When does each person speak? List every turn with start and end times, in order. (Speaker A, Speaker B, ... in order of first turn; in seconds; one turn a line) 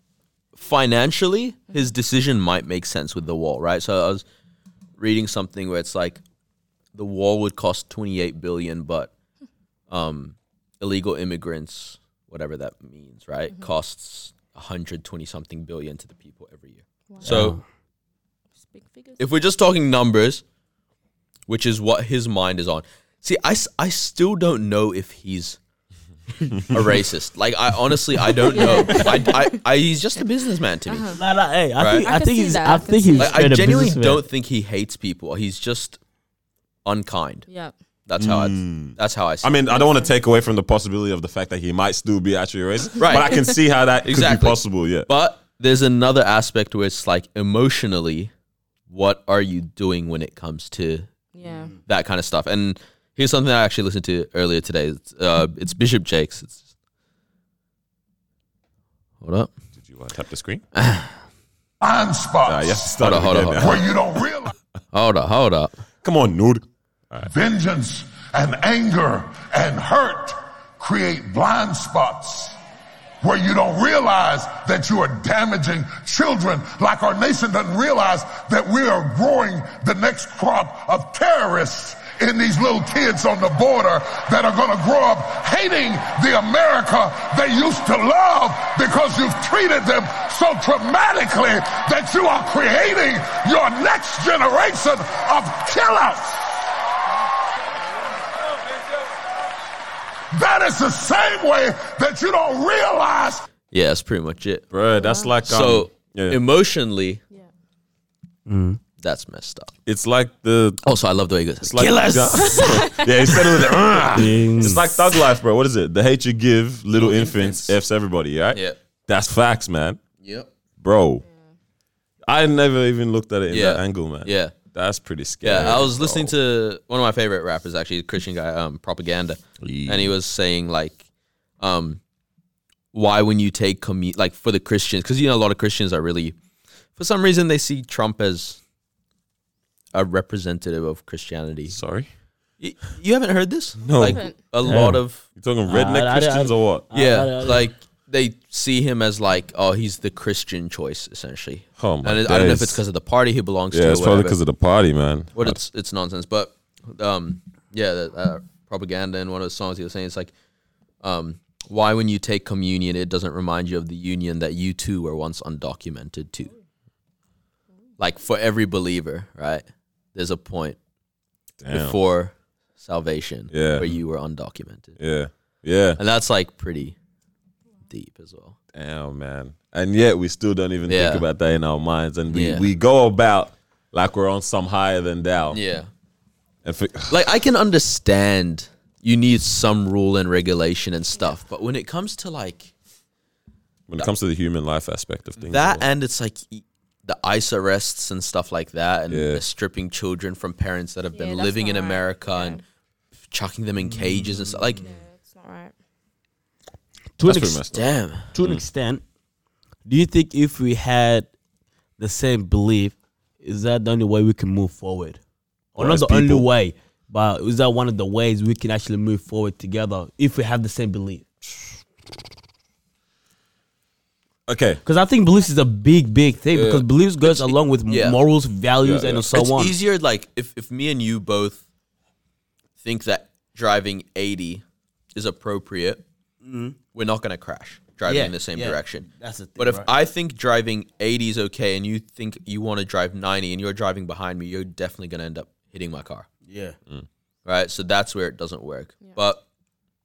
Speaker A: 0.5-4.2
Speaker A: 5.0-6.2
Speaker A: 6.9-9.1
Speaker A: 9.9-17.6
Speaker B: 17.2-17.6
Speaker C: 18.7-19.2
Speaker A: 19.2-20.4
Speaker A: 21.5-25.6
Speaker A: 26.6-31.2
Speaker C: 28.5-29.5
Speaker C: 30.9-31.2
Speaker B: 31.2-34.2
Speaker A: 31.8-32.1
Speaker C: 32.0-33.5
Speaker A: 33.1-36.0
Speaker A: 36.9-37.5
Speaker C: 37.5-37.7
Speaker A: 38.1-39.5
Speaker D: 38.2-45.1
Speaker C: 39.7-40.1
Speaker A: 43.0-43.5
Speaker A: 44.0-48.3
Speaker A: 48.9-51.1
Speaker C: 51.4-51.7
Speaker A: 51.8-56.6
Speaker A: 59.2-59.5
Speaker D: 59.8-60.6
Speaker A: 60.8-61.1
Speaker E: 61.8-62.9
Speaker D: 62.5-63.9
Speaker A: 63.0-63.9
Speaker E: 63.6-64.5
Speaker A: 64.9-65.8
Speaker D: 66.0-67.3
Speaker E: 67.3-72.6
Speaker E: 73.2-96.7
Speaker E: 100.3-103.4
Speaker A: 103.7-104.7
Speaker D: 104.7-106.4
Speaker C: 105.0-105.3
Speaker A: 105.5-107.2
Speaker B: 108.5-108.8
Speaker A: 109.0-109.7
Speaker D: 109.9-110.8
Speaker A: 110.8-114.0
Speaker D: 111.6-120.0
Speaker C: 112.6-113.1
Speaker B: 114.1-114.9
Speaker A: 117.0-117.7
Speaker A: 120.2-120.5
Speaker D: 120.8-121.2
Speaker D: 122.3-126.3
Speaker A: 123.5-124.5
Speaker A: 125.4-131.0
Speaker D: 129.6-130.2
Speaker A: 131.6-132.0
Speaker A: 132.9-136.4
Speaker A: 137.0-138.6
Speaker A: 139.9-141.8
Speaker D: 141.7-142.1
Speaker A: 142.6-145.2
Speaker D: 143.8-144.2
Speaker C: 143.9-144.3
Speaker B: 144.7-145.0
Speaker D: 145.4-146.8
Speaker B: 145.7-147.7
Speaker A: 146.9-154.4
Speaker D: 151.8-152.8
Speaker D: 153.7-155.6
Speaker A: 155.3-160.3
Speaker A: 161.0-166.5
Speaker A: 168.0-170.8
Speaker D: 171.6-172.0
Speaker A: 171.7-175.0
Speaker D: 173.5-174.0
Speaker D: 175.0-176.0
Speaker A: 176.0-177.0
Speaker A: 177.9-178.6
Speaker D: 178.7-185.6
Speaker A: 180.9-181.2
Speaker A: 182.3-182.7
Speaker A: 185.5-185.9
Speaker D: 186.7-187.2
Speaker A: 187.1-192.7
Speaker D: 193.9-195.8
Speaker A: 195.4-202.6
Speaker D: 199.1-199.4
Speaker C: 201.2-202.6
Speaker A: 203.3-204.9
Speaker C: 204.8-205.7
Speaker B: 207.2-207.7
Speaker D: 207.2-207.9
Speaker A: 207.7-208.3
Speaker B: 208.3-209.0
Speaker B: 209.9-211.3
Speaker B: 212.0-215.2
Speaker B: 215.8-221.2
Speaker D: 215.8-216.5
Speaker D: 224.5-224.8
Speaker B: 224.8-229.7
Speaker D: 226.5-226.9
Speaker A: 227.9-228.2
Speaker D: 228.8-229.3
Speaker A: 229.3-231.6
Speaker A: 232.8-234.6
Speaker A: 235.2-236.0
Speaker B: 236.4-236.8
Speaker A: 236.9-246.3
Speaker B: 238.1-239.9
Speaker B: 246.5-246.8
Speaker A: 247.4-249.4